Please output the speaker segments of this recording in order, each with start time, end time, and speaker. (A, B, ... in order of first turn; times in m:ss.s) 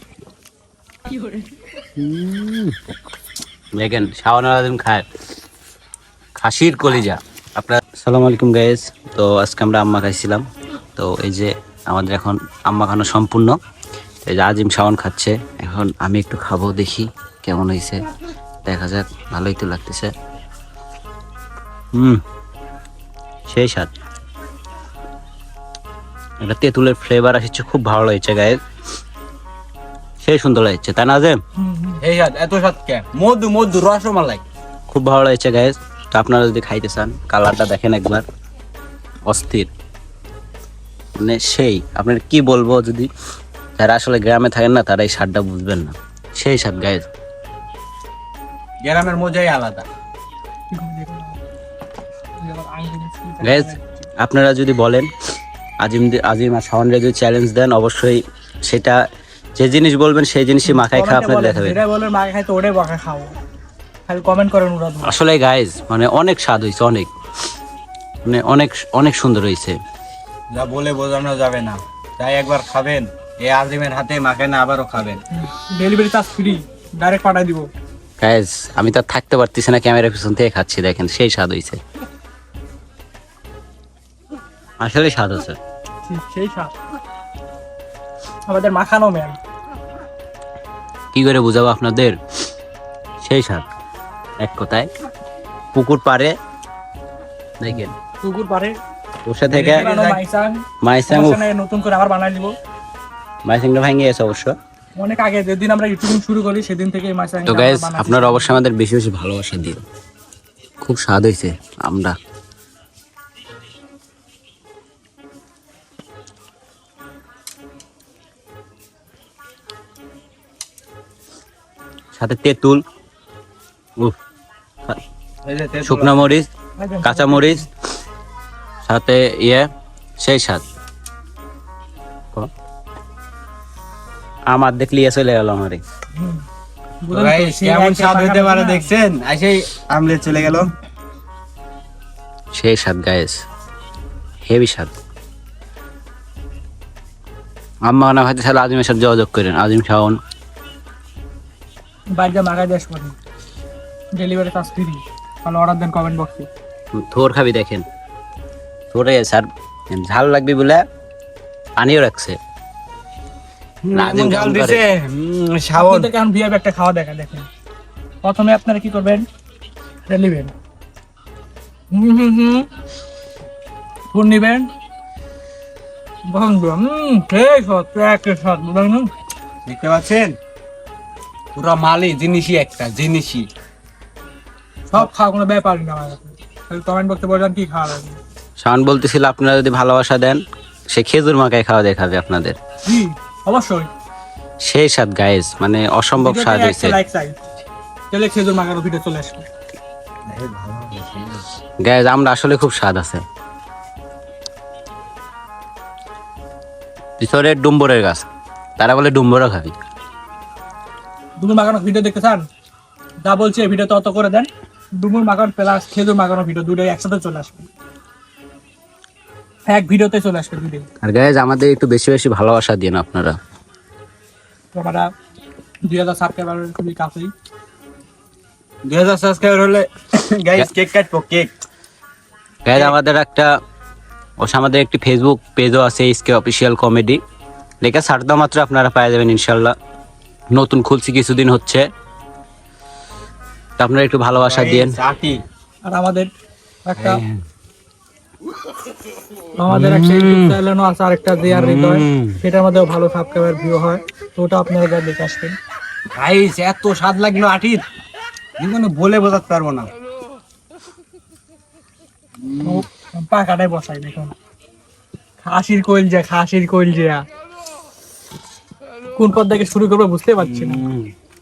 0:02.0-0:02.7 A
0:03.7-0:05.0 A
0:06.4-0:10.4 A
0:11.0-0:13.6 A
0:14.2-0:18.0 A
0:18.6-0:20.1 A
0:21.9-0:22.2 A
0:23.5-0:23.9 A
0:26.4-0:28.6 A
0:30.2-0:31.4 A
0:31.6-0:32.0 B
0:32.0-0:34.4 C
0:34.9-0:38.2 A
0:39.2-0:39.7 A
0:41.2-0:43.1 A
0:43.8-0:47.0 A
0:48.8-0:49.9 C
0:50.7-0:51.4 B
0:52.4-0:54.1 B
0:53.4-0:55.1 A
0:55.8-0:59.0 A
0:59.6-1:01.8 A
1:00.6-1:03.3 B
1:04.1-1:05.2 B
1:05.0-1:07.1 A
1:08.2-1:09.8 A
1:10.5-1:15.2 C
1:15.3-1:17.7 B
1:18.2-1:21.8 A
1:24.8-1:25.6 A
1:26.0-1:26.7 B
1:28.5-1:29.4 B
1:31.1-1:32.2 A
1:33.2-1:33.6 A
1:34.4-1:34.9 A
1:35.7-1:36.3 A
1:37.6-1:37.9 A
1:38.2-1:38.7 B
1:39.3-1:39.8 A
1:39.5-1:40.2 C
1:39.6-1:42.5 B
1:40.8-1:41.4 A
1:43.4-1:44.5 A
1:45.0-1:48.6 B
1:47.4-1:49.8 A
1:50.8-1:52.1 A
2:02.1-2:02.8 A
2:05.4-2:06.3 C
2:05.8-2:06.5 A
2:06.8-2:07.6 B
2:07.0-2:07.6 A
2:08.8-2:09.7 A
2:10.2-2:10.6 A
2:14.5-2:15.8 A
2:16.2-2:16.4 B
2:17.0-2:18.9 B
2:17.1-2:20.7 C
2:22.5-2:23.3 A
2:24.4-2:24.9 A
2:27.8-2:30.2 A
2:32.1-2:33.2 B
2:34.1-2:36.5 B
2:36.9-2:37.8 A
2:38.9-2:40.8 A
2:41.8-2:42.4 A
2:43.8-2:46.1 C
2:43.9-2:44.8 A
2:45.8-2:47.5 B
2:48.2-2:49.2 B
2:50.1-2:50.5 B
2:51.9-2:52.7 B
2:54.1-2:54.7 B
2:56.3-2:59.1 B
2:59.6-3:00.4 C
3:01.6-3:03.5 C
3:04.9-3:08.2 B
3:08.6-3:12.6 A
3:12.8-3:13.9 B
3:14.6-3:17.0 A
3:16.2-3:17.3 B
3:18.1-3:19.4 B
3:20.3-3:21.4 C
3:21.8-3:23.2 A
3:27.2-3:28.2 A
3:28.8-3:29.7 A
3:31.4-3:32.4 B
3:33.2-3:37.7 B
3:39.7-3:40.8 B
3:41.0-3:43.4 A
3:44.7-3:45.1 B
3:45.9-3:47.3 B
3:48.8-3:51.5 C
3:52.6-3:53.5 A
3:54.4-3:57.2 A
3:57.8-3:59.7 A
4:00.5-4:01.8 A
4:03.8-4:05.0 A
4:04.3-4:05.4 C
4:05.8-4:06.3 B
4:06.8-4:07.2 B
4:09.6-4:15.5 B
4:11.5-4:12.3 A
4:16.1-4:17.8 C
4:18.6-4:19.9 C
4:22.4-4:22.8 C
4:22.6-4:24.3 B
4:25.4-4:27.2 B
4:29.2-4:30.8 B
4:30.6-4:31.1 A